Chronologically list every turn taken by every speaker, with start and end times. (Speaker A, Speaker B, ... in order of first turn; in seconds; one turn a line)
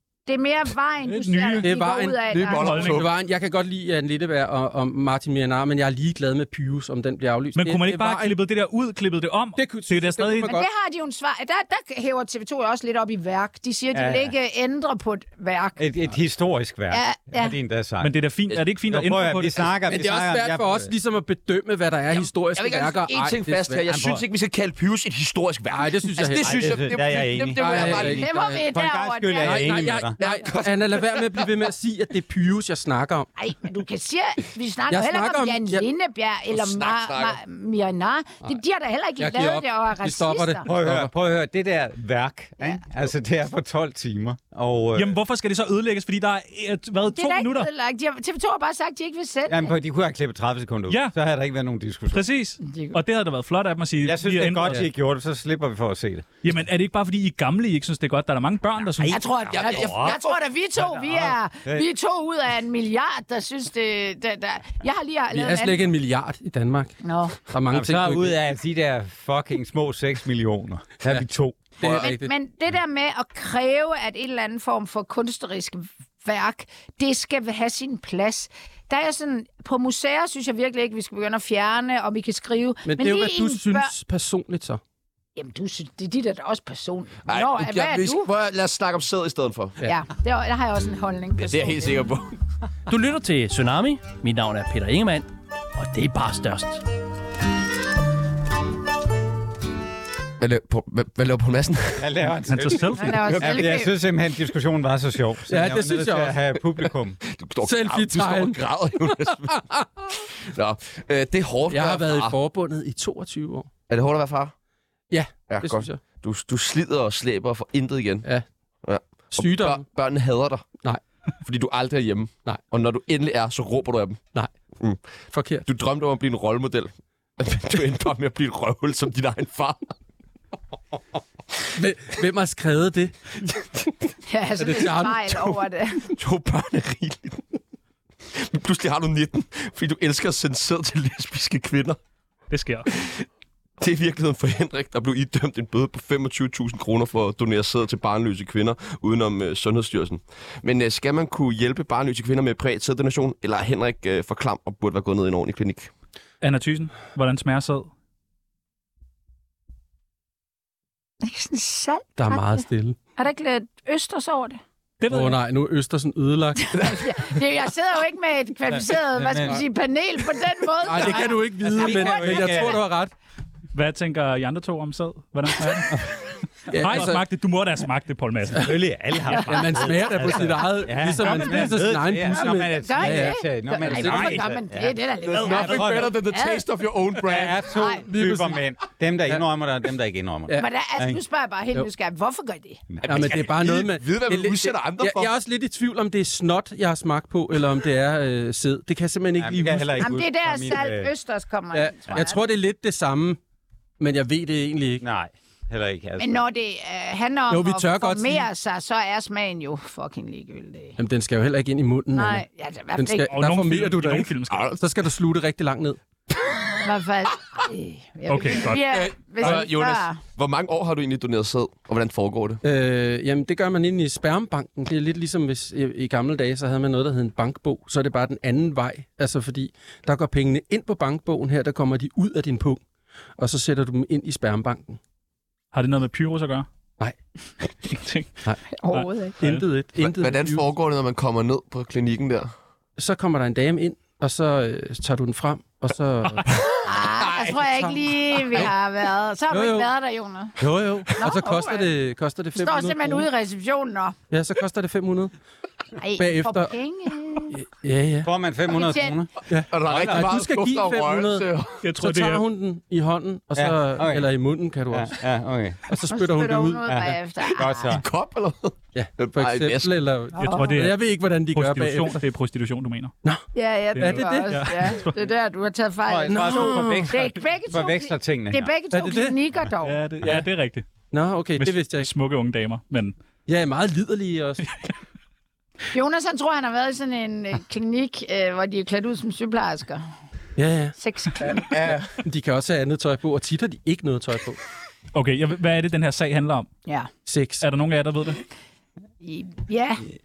Speaker A: 0.3-2.8
Speaker B: 1.0-1.7
Speaker C: 1.6-8.3
Speaker D: 2.3-3.1
Speaker B: 2.6-3.0
Speaker B: 7.5-10.5
Speaker C: 9.6-10.7
Speaker A: 10.4-15.8
Speaker E: 13.9-14.3
Speaker E: 15.8-18.1
Speaker A: 16.9-17.5
Speaker B: 18.0-19.7
Speaker E: 18.9-20.9
Speaker C: 19.9-23.8
Speaker D: 22.1-28.2
Speaker E: 23.9-24.2
Speaker C: 25.7-26.9
Speaker E: 26.4-30.2
Speaker C: 27.5-28.6
Speaker A: 28.1-29.8
Speaker C: 29.4-33.3
Speaker D: 30.2-31.6
Speaker A: 33.4-40.6
Speaker C: 34.9-35.8
Speaker D: 36.5-37.4
Speaker C: 39.2-41.1
Speaker E: 40.6-45.2
Speaker B: 44.9-47.7
Speaker A: 47.1-49.7
Speaker E: 49.5-52.2
Speaker B: 50.9-51.1
Speaker B: 52.1-54.8
Speaker A: 52.6-53.0
Speaker E: 54.0-56.3
Speaker B: 56.4-59.2
Speaker E: 59.0-60.2
Speaker A: 59.0-65.8
Speaker D: 59.5-60.4
Speaker E: 60.8-61.9
Speaker C: 65.3-66.9
Speaker A: 67.0-67.4
Speaker C: 67.5-68.3
Speaker E: 67.7-71.6
Speaker C: 71.8-72.3
Speaker D: 71.8-72.1
Speaker A: 71.8-83.9
Speaker C: 82.8-84.8
Speaker A: 85.3-88.3
Speaker D: 87.3-89.8
Speaker A: 89.8-92.1
Speaker D: 91.4-92.3
Speaker F: 92.9-96.8
Speaker D: 100.4-102.1
Speaker E: 102.0-107.2
Speaker B: 102.5-103.5
Speaker A: 103.0-103.9
Speaker C: 105.5-106.4
Speaker D: 107.2-112.4
Speaker C: 107.6-109.9
Speaker C: 111.7-113.7
Speaker D: 113.9-114.5
Speaker C: 115.1-116.0
Speaker D: 115.5-118.3
Speaker D: 118.8-120.7
Speaker C: 119.3-119.8
Speaker D: 121.4-124.2
Speaker D: 124.8-125.0
Speaker C: 125.3-125.6
Speaker D: 125.6-129.9
Speaker C: 131.7-133.9
Speaker A: 134.3-136.0
Speaker C: 134.6-135.5
Speaker D: 136.1-137.4
Speaker D: 138.3-142.0
Speaker B: 142.5-142.9
Speaker D: 142.9-143.2
Speaker D: 143.8-155.9
Speaker B: 156.4-157.9
Speaker A: 161.2-164.6
Speaker C: 162.2-163.0
Speaker B: 165.0-165.4
Speaker C: 165.1-167.1
Speaker A: 166.6-172.7
Speaker E: 168.9-169.6
Speaker C: 170.8-173.1
Speaker E: 171.6-172.8
Speaker B: 173.7-178.8
Speaker C: 176.7-177.2
Speaker E: 178.6-186.1
Speaker C: 179.4-184.4
Speaker A: 182.3-186.6
Speaker D: 185.2-187.7
Speaker E: 187.2-191.2
Speaker C: 187.9-188.6
Speaker A: 190.6-192.8
Speaker E: 192.9-193.4
Speaker C: 193.0-200.1
Speaker D: 193.1-195.3
Speaker E: 199.4-201.1
Speaker A: 200.0-202.4
Speaker C: 201.7-203.4
Speaker C: 204.0-205.0
Speaker E: 205.0-206.4
Speaker A: 206.2-211.0
Speaker C: 207.5-208.4
Speaker C: 211.0-216.0
Speaker A: 212.1-213.3
Speaker B: 213.3-214.7
Speaker D: 214.5-214.8
Speaker A: 216.8-220.2
Speaker B: 218.3-218.8
Speaker D: 218.6-222.6
Speaker C: 219.4-219.7
Speaker C: 222.6-232.8
Speaker C: 233.4-235.0
Speaker B: 235.7-236.7
Speaker B: 237.9-238.4
Speaker A: 238.8-239.3
Speaker B: 238.9-239.7
Speaker C: 239.4-240.6
Speaker D: 240.0-242.5
Speaker C: 243.0-246.5
Speaker A: 246.8-250.6
Speaker C: 249.5-249.9
Speaker C: 250.6-253.3
Speaker E: 250.6-251.0
Speaker A: 251.1-251.9
Speaker A: 252.5-254.1
Speaker C: 254.3-255.3
Speaker A: 256.0-257.5
Speaker C: 256.2-256.7
Speaker C: 257.5-258.3
Speaker E: 258.2-259.3
Speaker A: 258.7-259.2
Speaker C: 259.5-265.2
Speaker D: 259.7-261.8
Speaker E: 259.9-260.4
Speaker B: 261.8-262.4
Speaker E: 263.5-264.3
Speaker E: 264.9-265.8
Speaker C: 265.9-267.1
Speaker A: 266.1-267.9
Speaker E: 266.9-268.0
Speaker D: 267.5-269.9
Speaker C: 268.9-272.2
Speaker A: 270.4-270.8
Speaker B: 270.4-273.1
Speaker A: 273.5-279.9
Speaker C: 273.9-274.9
Speaker B: 273.9-275.1
Speaker E: 276.1-278.7
Speaker C: 276.3-277.0
Speaker C: 278.9-279.4
Speaker B: 279.8-281.0
Speaker C: 281.1-282.1
Speaker B: 281.6-283.2
Speaker C: 283.4-284.6
Speaker A: 285.9-290.0
Speaker C: 290.6-290.9
Speaker A: 291.0-291.6
Speaker D: 291.7-292.2
Speaker C: 292.2-294.6
Speaker B: 295.1-296.7
Speaker C: 297.3-297.6
Speaker B: 297.6-298.4
Speaker A: 299.2-300.1